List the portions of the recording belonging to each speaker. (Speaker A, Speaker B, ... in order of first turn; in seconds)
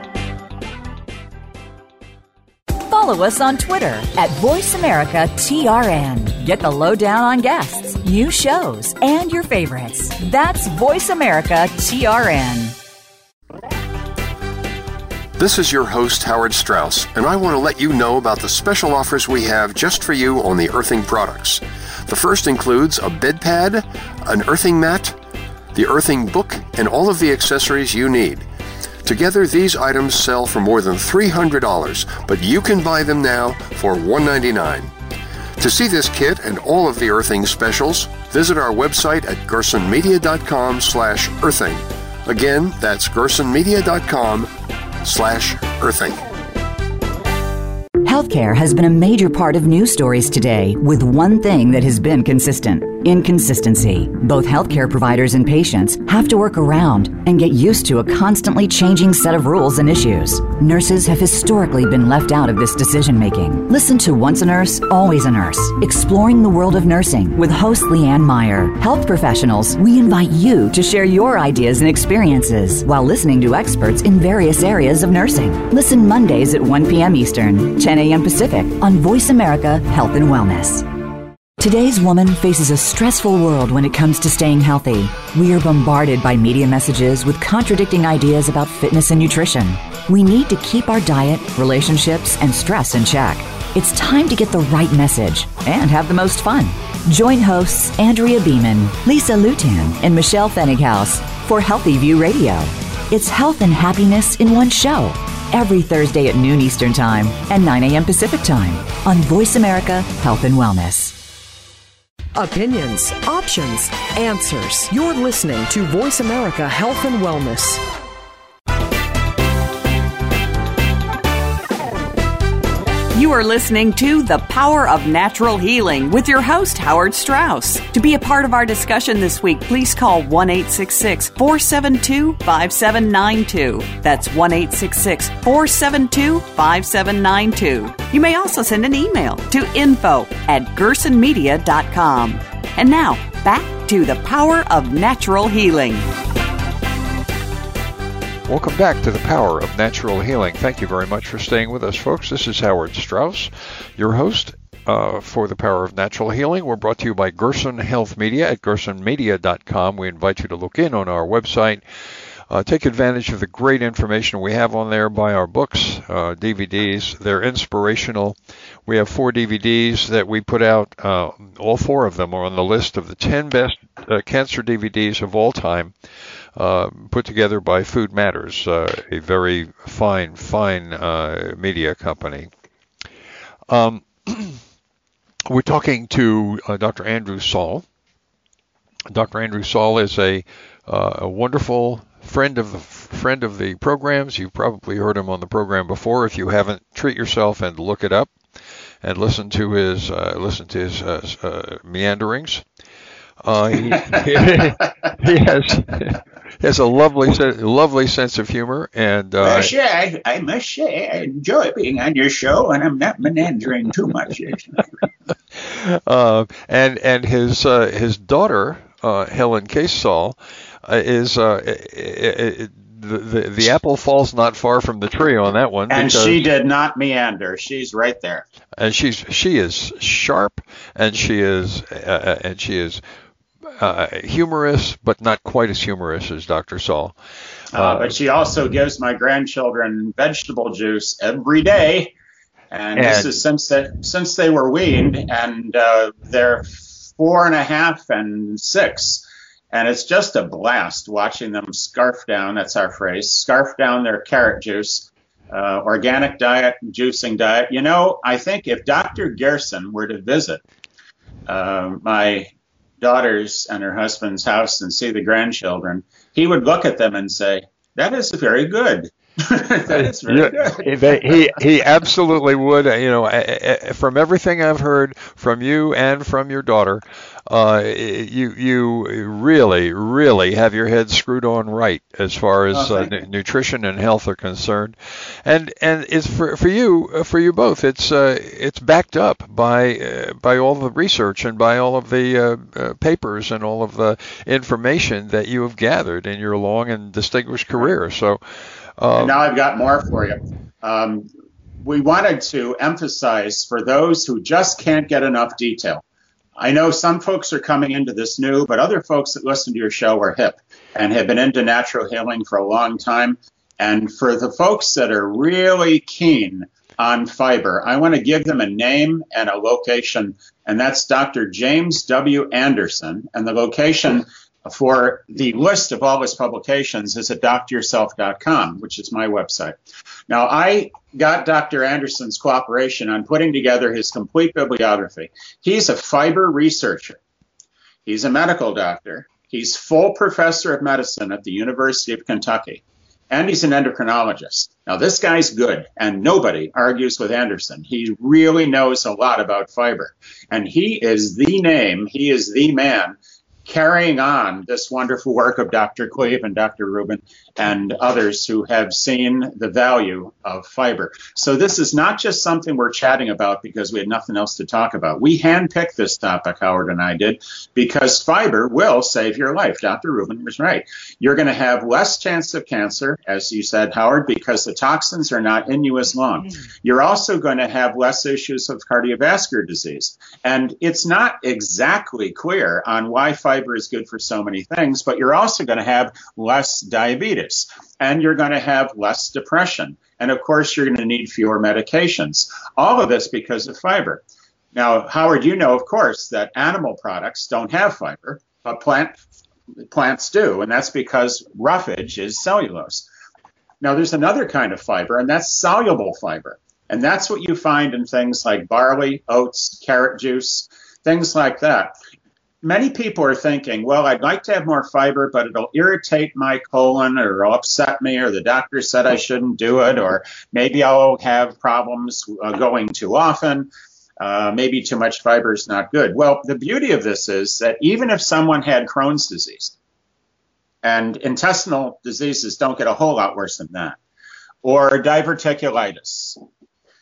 Speaker A: 2.8-12.8, 48.0-80.9, 81.6-111.2
Speaker B: 15.4-25.2, 25.7-28.4, 29.0-34.9, 35.6-44.5, 45.0-46.2
Speaker C: 112.3-117.8
Speaker D: 123.1-146.1
Speaker E: 148.5-161.8, 162.5-175.9, 176.6-182.5, 183.7-184.6, 185.5-187.8, 189.1-198.3, 199.0-202.7, 203.4-209.7, 215.6-226.5, 228.8-233.0, 233.8-237.2, 237.8-238.2, 242.9-243.4, 269.9-298.4, 299.0-299.4
Speaker F: 203.9-205.1, 209.4-214.9, 225.9-228.5, 237.7-242.1, 242.7-260.6, 261.5-262.5, 263.0-271.6, 282.7-283.1, 299.2-301.3, 301.8-306.0, 306.6-329.8, 330.3-337.2, 338.1-394.2, 394.7-399.2, 399.9-403.1, 403.8-411.9, 412.6-423.7, 424.2-429.7, 430.8-434.0, 434.6-436.4